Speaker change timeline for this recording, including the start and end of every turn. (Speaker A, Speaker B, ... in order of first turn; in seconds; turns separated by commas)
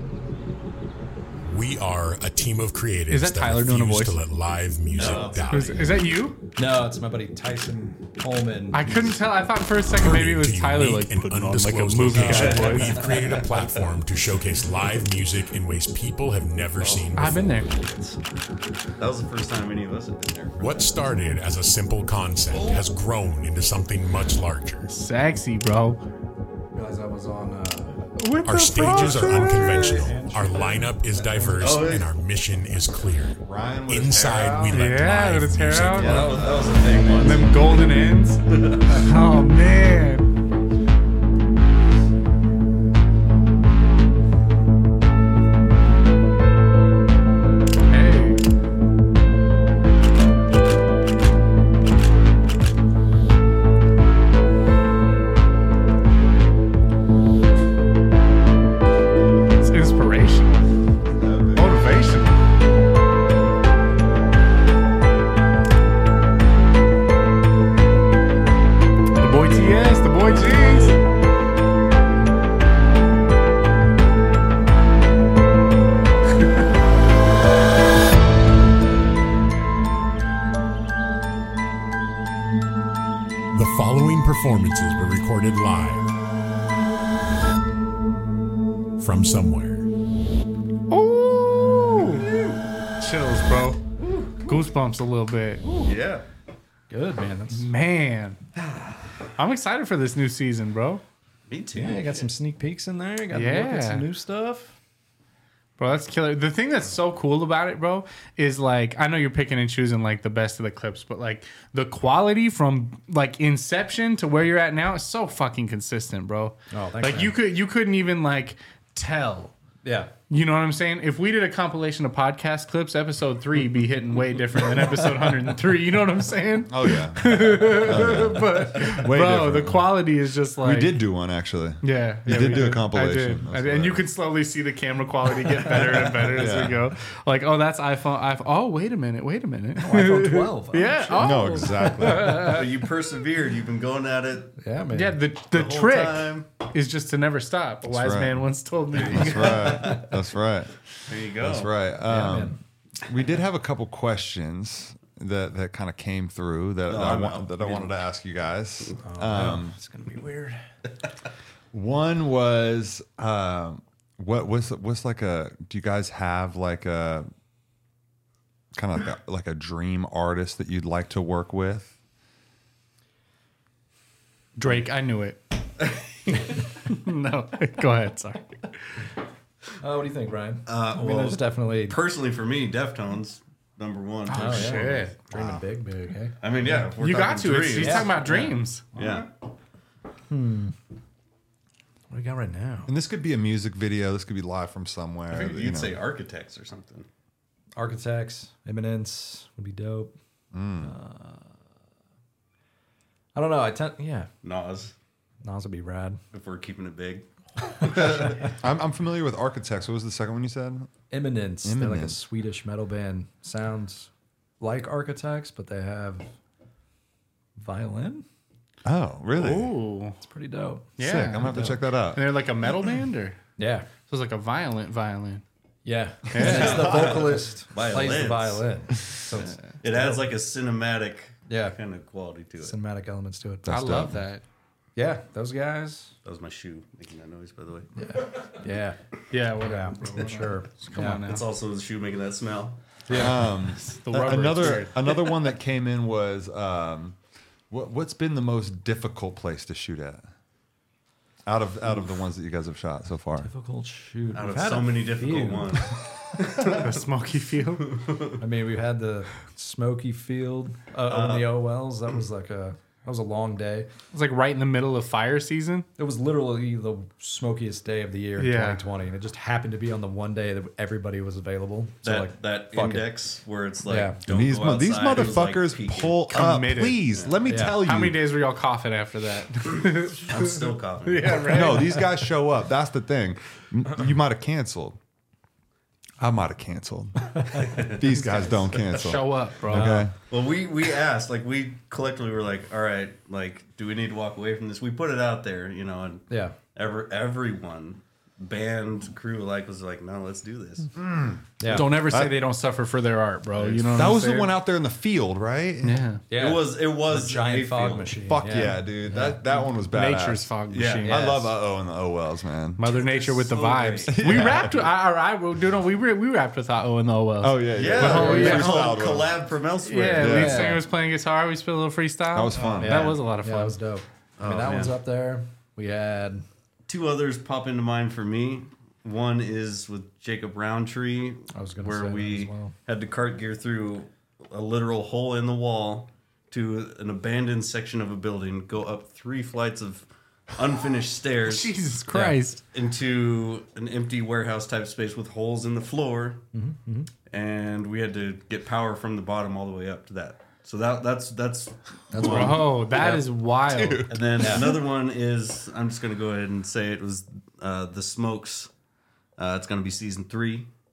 Speaker A: 1.4-6.0, Speaker B: 3.1-4.2, Speaker C: 5.0-5.9, Speaker B: 5.5-6.4, Speaker D: 6.6-9.1, Speaker B: 8.7-13.1, Speaker A: 9.9-17.6, Speaker D: 12.2-13.0, Speaker C: 12.9-13.4, Speaker C: 16.8-18.2, Speaker B: 17.1-17.7, Speaker C: 19.0-20.9, Speaker A: 20.6-24.9, Speaker D: 22.6-22.8, Speaker B: 24.9-26.0, Speaker D: 26.7-28.1, Speaker B: 28.2-29.9, Speaker A: 28.4-36.3, Speaker D: 28.9-31.9, Speaker C: 31.6-32.1, Speaker E: 33.4-34.9, Speaker B: 34.7-36.3, Speaker E: 35.9-37.0, Speaker C: 36.0-37.6, Speaker D: 36.9-37.3, Speaker B: 37.1-40.3, Speaker C: 38.5-39.0, Speaker B: 47.9-48.4, Speaker B: 59.6-60.7, Speaker E: 61.1-62.1, Speaker B: 61.5-62.4, Speaker B: 69.2-71.0, Speaker A: 83.5-86.1, Speaker A: 89.0-89.9, Speaker B: 90.9-92.3, Speaker C: 92.3-92.6, Speaker B: 93.0-93.8, Speaker C: 94.0-94.3, Speaker B: 94.4-95.6, Speaker D: 95.6-95.9, Speaker C: 95.8-96.2, Speaker D: 96.9-97.7, Speaker B: 97.5-98.4, Speaker B: 99.4-101.0, Speaker C: 101.5-102.3, Speaker D: 101.8-104.8, Speaker B: 103.3-104.0, Speaker B: 105.8-119.5, Speaker D: 116.7-117.3, Speaker D: 119.8-120.1, Speaker B: 120.3-131.0, Speaker E: 126.7-130.0, Speaker E: 130.6-134.1, Speaker B: 131.8-142.6, Speaker E: 136.2-136.9, Speaker D: 139.8-142.2, Speaker E: 141.2-142.6, Speaker C: 142.3-144.6, Speaker D: 144.6-145.2, Speaker B: 144.9-149.9, Speaker C: 145.5-146.5, Speaker E: 147.9-159.8, Speaker C: 149.6-150.0, Speaker C: 151.1-151.7, Speaker D: 152.1-152.6, Speaker C: 156.9-157.9, Speaker D: 159.0-160.6, Speaker E: 161.7-167.3, Speaker E: 168.7-171.9, Speaker B: 174.6-175.4, Speaker B: 176.3-178.7, Speaker D: 179.8-182.0, Speaker C: 180.7-185.6, Speaker B: 184.3-185.2, Speaker D: 184.3-186.9, Speaker C: 186.4-189.3, Speaker B: 187.0-188.9, Speaker D: 187.8-189.2, Speaker D: 190.3-190.8, Speaker D: 192.1-192.9, Speaker E: 192.9-196.0, Speaker C: 195.3-197.1, Speaker D: 197.8-200.2, Speaker E: 200.5-200.9, Speaker D: 200.8-201.5, Speaker D: 203.3-204.3, Speaker C: 204.4-204.9, Speaker D: 205.4-206.2, Speaker C: 206.3-207.2, Speaker D: 207.8-208.3, Speaker C: 207.8-208.4, Speaker E: 207.9-210.9, Speaker D: 211.1-216.3, Speaker E: 211.6-212.2, Speaker D: 217.6-218.2, Speaker E: 218.8-219.8, Speaker B: 219.3-220.2, Speaker D: 220.2-221.8, Speaker B: 221.0-223.4, Speaker E: 221.0-222.2, Speaker D: 223.6-223.9, Speaker B: 224.1-225.4, Speaker D: 225.8-230.2, Speaker B: 226.3-227.1, Speaker C: 226.3-228.7, Speaker C: 229.8-232.8, Speaker D: 231.5-231.8, Speaker D: 232.6-234.1, Speaker E: 233.7-234.2, Speaker B: 233.7-234.4, Speaker D: 235.0-236.1, Speaker C: 236.2-237.9, Speaker D: 238.0-239.0, Speaker B: 239.3-241.4, Speaker D: 239.6-241.2, Speaker C: 241.3-242.8, Speaker D: 243.1-243.3, Speaker B: 243.1-245.1, Speaker E: 243.1-247.2, Speaker E: 247.7-250.3, Speaker E: 251.5-253.5, Speaker D: 253.4-256.0, Speaker C: 254.3-256.9, Speaker B: 256.6-258.0, Speaker C: 257.8-258.4, Speaker D: 258.4-263.9, Speaker C: 261.1-261.6, Speaker B: 264.1-265.9, Speaker D: 266.0-273.1, Speaker B: 268.4-268.8, Speaker C: 272.0-276.2, Speaker D: 273.9-274.2, Speaker E: 274.3-278.2, Speaker B: 276.3-282.1, Speaker D: 277.5-277.8, Speaker C: 280.2-281.8, Speaker E: 281.4-285.0, Speaker E: 286.2-290.1, Speaker C: 287.7-288.0, Speaker B: 288.2-289.9, Speaker D: 289.7-290.1, Speaker C: 290.3-300.9, Speaker D: 296.3-296.6, Speaker E: 300.9-302.4, Speaker D: 301.6-302.0, Speaker B: 301.7-304.5, Speaker C: 303.6-304.1, Speaker E: 303.9-306.0, Speaker B: 305.8-306.2, Speaker D: 306.3-309.4, Speaker C: 306.3-308.2, Speaker E: 308.3-312.8, Speaker B: 309.9-311.3, Speaker C: 310.7-311.3, Speaker D: 311.1-311.4, Speaker B: 312.8-318.9, Speaker C: 312.9-314.6, Speaker E: 314.1-314.9, Speaker E: 317.4-319.4, Speaker C: 317.7-320.7, Speaker D: 318.1-318.5, Speaker B: 319.8-323.8, Speaker E: 320.1-320.8, Speaker D: 320.3-320.8, Speaker E: 322.3-323.2, Speaker D: 322.6-326.4, Speaker C: 324.4-325.0, Speaker C: 326.9-341.8, Speaker D: 331.5-332.7, Speaker B: 341.4-342.6, Speaker D: 342.1-342.4, Speaker C: 342.7-346.4, Speaker D: 346.5-347.1, Speaker C: 347.3-352.6, Speaker D: 352.1-353.2, Speaker B: 352.2-354.1, Speaker E: 353.7-354.6, Speaker C: 354.1-358.7, Speaker D: 354.4-354.8, Speaker C: 359.4-360.7